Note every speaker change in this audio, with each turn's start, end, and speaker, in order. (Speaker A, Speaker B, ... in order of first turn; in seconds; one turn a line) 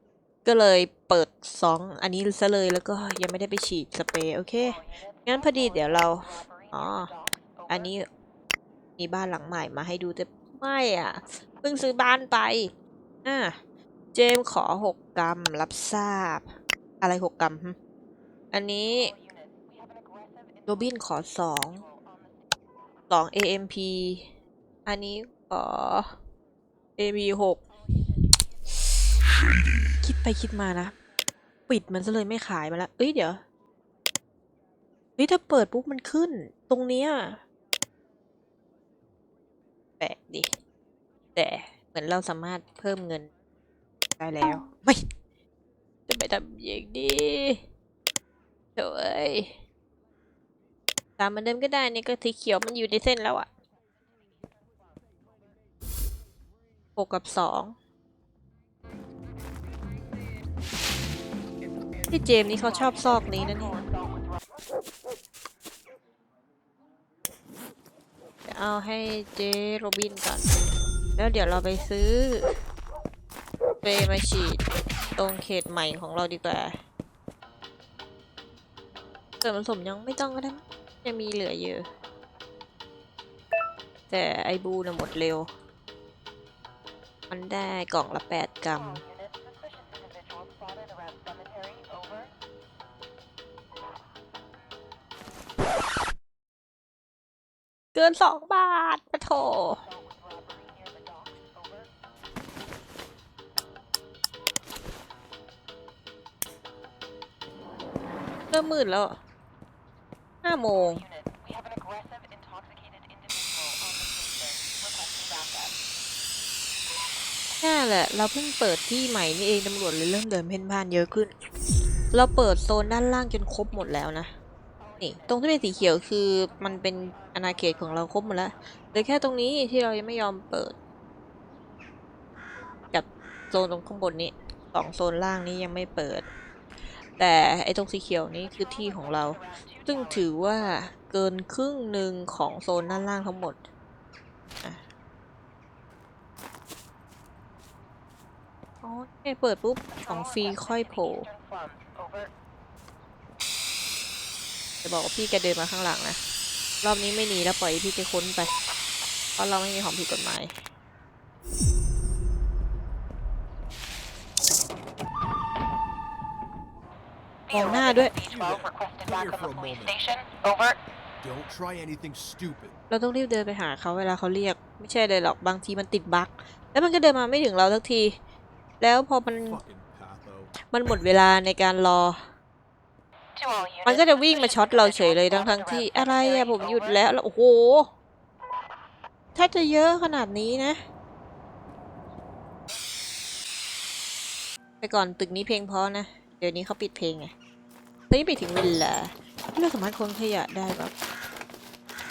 Speaker A: 0.4-7.1
Speaker B: 4.6-7.9
Speaker A: 7.7-8.0
Speaker A: 9.0-12.7
Speaker A: 13.2-13.6
Speaker A: 14.1-17.8
Speaker A: 18.5-19.1
Speaker B: 18.9-22.5
Speaker A: 20.7-21.8
Speaker A: 23.1-24.3
Speaker A: 24.9-26.2
Speaker A: 27.0-27.6
Speaker B: 27.7-28.4
Speaker A: 30.0-30.9
Speaker A: 31.7-33.4
Speaker A: 35.2-37.4
Speaker A: 40.0-40.5
Speaker A: 41.4-43.3
Speaker A: 44.2-45.0
Speaker A: 46.1-47.6
Speaker A: 48.8-49.6
Speaker A: 51.2-53.5
Speaker A: 57.0-57.8
Speaker A: 62.1-63.7
Speaker B: 62.6-64.4
Speaker A: 68.5-70.5
Speaker A: 71.2-72.5
Speaker A: 73.8-74.6
Speaker A: 75.2-76.8
Speaker A: 79.4-81.9
Speaker A: 84.1-85.5
Speaker A: 87.3-89.0
Speaker B: 88.7-92.3
Speaker A: 97.9-99.8
Speaker B: 99.4-101.9
Speaker A: 108.5-109.2
Speaker A: 110.4-111.0
Speaker B: 110.7-115.7
Speaker A: 117.6-121.3
Speaker A: 122.1-124.3
Speaker B: 124.8-128.0
Speaker A: 125.0-130.8
Speaker A: 132.9-136.3
Speaker A: 137.2-143.6
Speaker B: 138.4-140.8
Speaker A: 148.8-151.3
Speaker B: 149.9-152.3
Speaker A: 154.8-156.2
Speaker A: 156.8-158.5
Speaker A: 159.4-160.5
Speaker B: 167.5-170.8
Speaker A: 167.5-168.1
Speaker C: 168.2-169.9
Speaker C: 171.2-172.8
Speaker A: 172.9-178.2
Speaker A: 178.8-179.6
Speaker C: 179.4-180.5
Speaker A: 180.7-182.2
Speaker B: 183.3-187.0
Speaker A: 183.8-187.9
Speaker A: 189.3-190.8
Speaker A: 194.8-197.3
Speaker A: 198.1-200.9